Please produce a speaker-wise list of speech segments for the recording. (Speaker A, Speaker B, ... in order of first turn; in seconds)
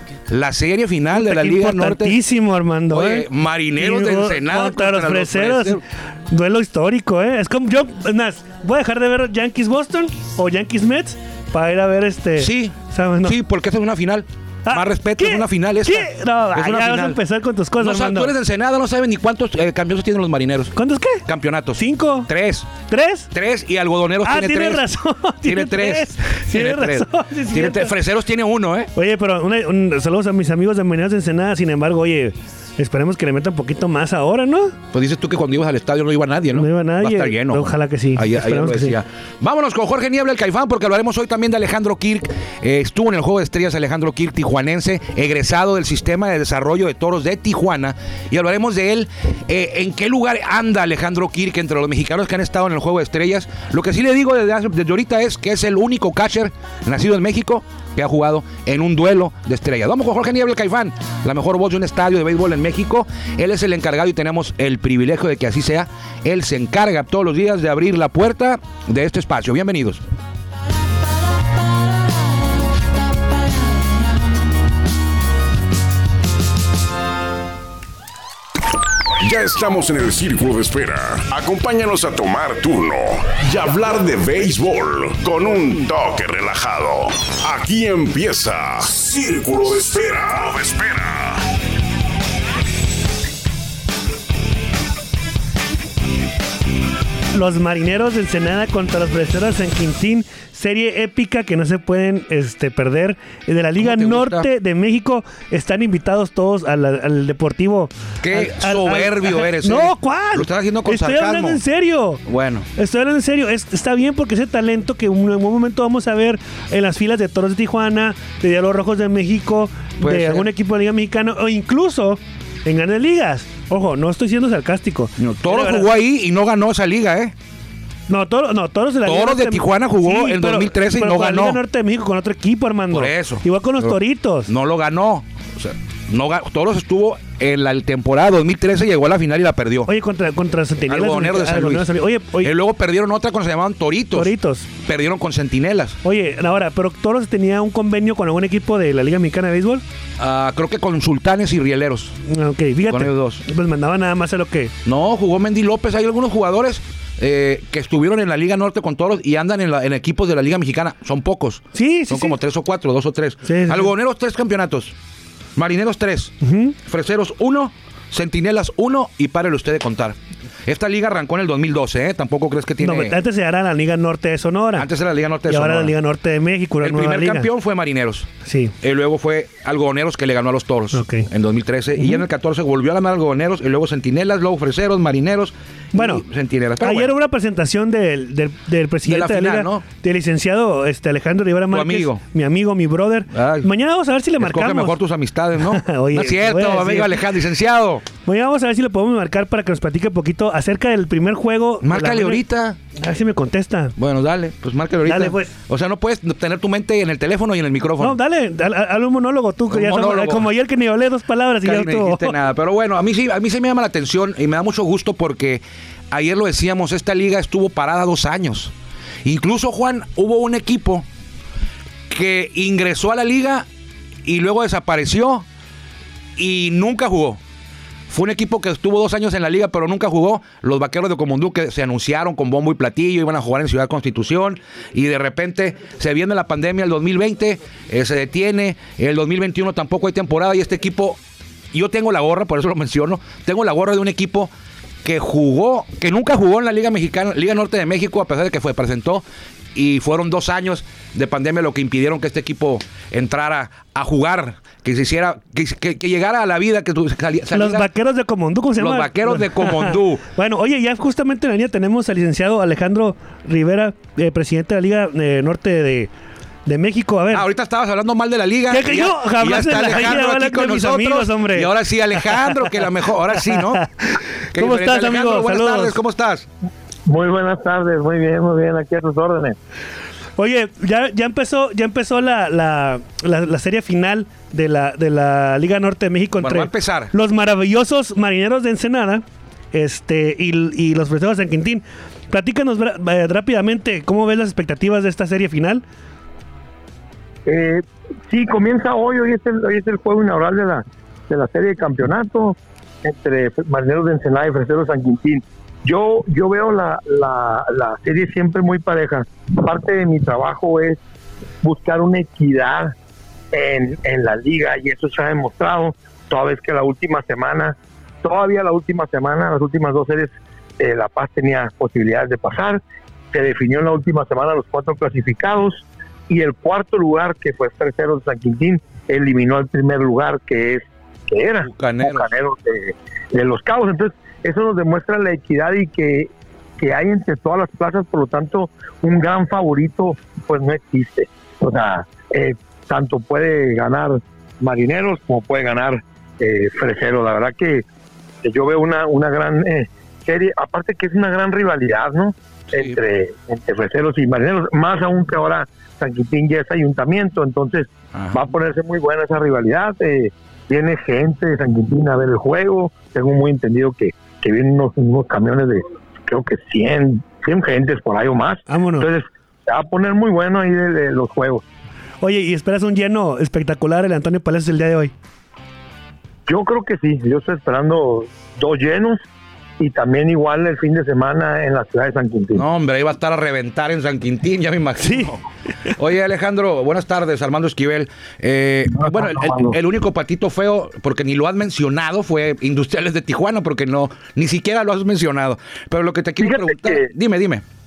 Speaker A: 0.3-2.2, 2.9-5.8, 12.4-17.2, 17.8-22.7, 23.3-24.9, 25.4-28.9, 34.9-70.0, 103.8-104.5, 108.2-111.6, 112.3-112.7, 120.0-120.5, 125.2-127.3, 129.1-131.6, 132.9-133.9, 134.5-139.9, 140.9-146.0, 150.2-152.2, 152.9-153.4, 154.8-164.9, 165.6-173.2, 174.8-175.9, 176.8-178.3, 178.8-187.1, 189.0-189.8, 191.7-192.2, 193.3-193.7, 194.4-198.1, 201.8-202.8, 204.0-208.2, 209.7-210.5, 211.6-218.7, 219.2-221.1, 222.1-223.7, 224.2-225.5, 226.4-227.4, 228.1-241.2, 241.7-244.5, 245.0-257.9, 258.8-260.2, 267.3-273.9, 274.5-276.5, 286.4-287.1, 331.6-332.3, 352.7-353.0, 358.1-358.5, 382.5-397.6
Speaker B: 1.1-13.4, 14.7-18.3, 20.8-21.2, 21.8-23.3, 24.2-27.9, 28.9-34.8, 36.5-39.0, 97.3-112.2, 112.8-125.9, 128.1-134.5, 139.9-142.5, 144.1-144.7, 146.0-149.8, 152.3-154.7, 161.7-162.4, 163.4-163.9, 166.4-166.8, 172.8-174.9, 175.5-177.5, 178.4-178.7, 180.9-181.3, 185.9-186.2, 186.8-194.9, 195.6-197.2, 198.3-202.4, 203.0-204.0, 205.1-205.5, 208.0-212.4, 257.5-266.1, 266.7-267.5, 268.7-276.0, 280.4-295.8, 368.7-369.1, 372.2-375.1, 385.0-385.4
Speaker C: 79.2-91.5
Speaker D: 277.1-279.6, 297.5-311.0, 311.6-312.9, 313.5-322.8, 323.3-347.8, 348.4-371.6, 376.5-379.2, 379.8-382.6, 389.0-389.8, 396.4-397.1